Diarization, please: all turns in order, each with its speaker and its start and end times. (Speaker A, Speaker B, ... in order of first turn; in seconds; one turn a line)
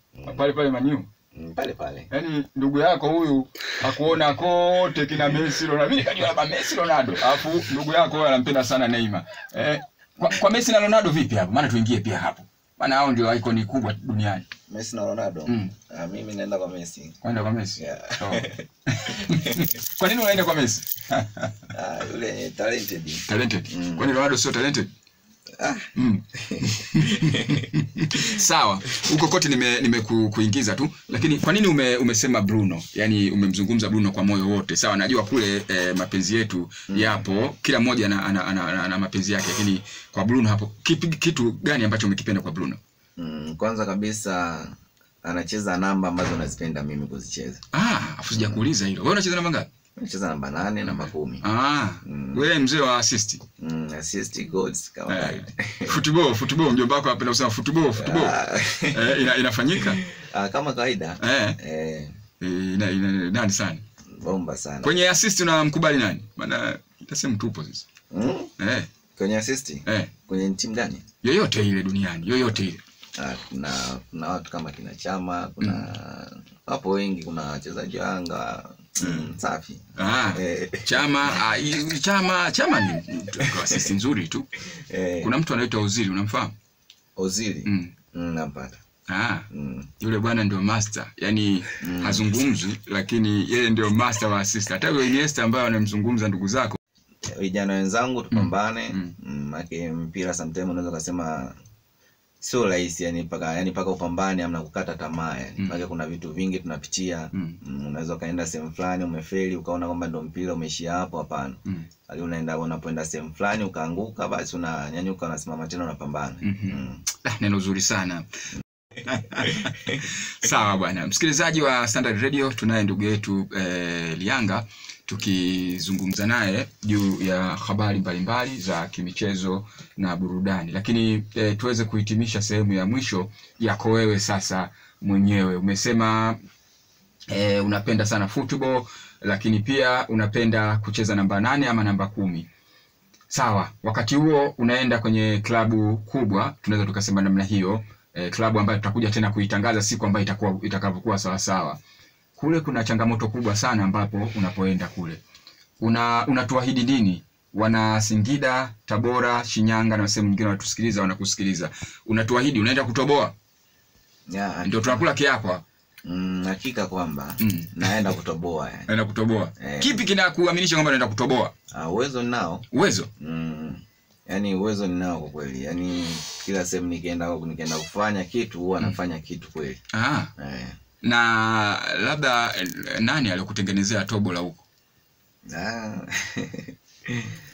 Speaker A: 0.1-0.5
Speaker B: 0.3-1.1
Speaker A: 1.4-2.1
Speaker B: 2.1-14.5
Speaker A: 14.7-17.2
Speaker B: 15.5-15.7
Speaker B: 17.2-21.7
Speaker A: 17.8-18.6
Speaker A: 19.3-19.6
Speaker A: 21.7-24.1
Speaker B: 23.3-24.9
Speaker A: 25.6-27.6
Speaker B: 25.9-42.8
Speaker A: 36.9-37.2
Speaker A: 43.2-47.6
Speaker B: 47.7-49.7
Speaker A: 48.3-48.7
Speaker A: 50.0-51.5
Speaker B: 51.4-53.4
Speaker A: 52.0-52.5
Speaker A: 53.6-56.0
Speaker B: 55.1-58.4
Speaker A: 58.0-59.2
Speaker B: 58.9-60.0
Speaker A: 60.0-62.1
Speaker B: 61.2-61.6
Speaker B: 62.4-63.8
Speaker A: 64.1-65.0
Speaker B: 64.8-67.8
Speaker A: 68.1-68.5
Speaker B: 68.6-68.9
Speaker A: 69.2-71.0
Speaker B: 69.9-70.1
Speaker B: 71.2-72.8
Speaker A: 73.2-81.4
Speaker B: 75.6-75.9
Speaker B: 79.0-79.3
Speaker B: 80.0-84.5
Speaker A: 83.5-83.8
Speaker A: 84.7-85.3
Speaker B: 85.2-86.5
Speaker A: 87.2-88.8
Speaker B: 87.7-87.9
Speaker B: 89.1-89.5
Speaker A: 89.5-89.9
Speaker B: 90.0-96.8
Speaker A: 91.8-92.3
Speaker A: 97.2-101.6
Speaker B: 98.3-99.1
Speaker A: 102.4-117.0
Speaker B: 105.6-105.9
Speaker B: 107.3-107.6
Speaker B: 116.4-118.3
Speaker B: 119.0-136.4
Speaker B: 137.3-142.5
Speaker B: 143.3-151.8
Speaker B: 152.4-155.2
Speaker B: 155.8-163.3
Speaker A: 164.3-165.0
Speaker B: 164.7-165.6
Speaker A: 166.1-168.9
Speaker B: 167.4-168.1
Speaker B: 168.9-171.5
Speaker A: 169.6-170.1
Speaker A: 171.7-172.7
Speaker B: 172.7-173.1
Speaker A: 173.2-179.8
Speaker B: 179.9-180.3
Speaker A: 180.4-180.8
Speaker B: 181.0-184.6
Speaker A: 185.5-187.3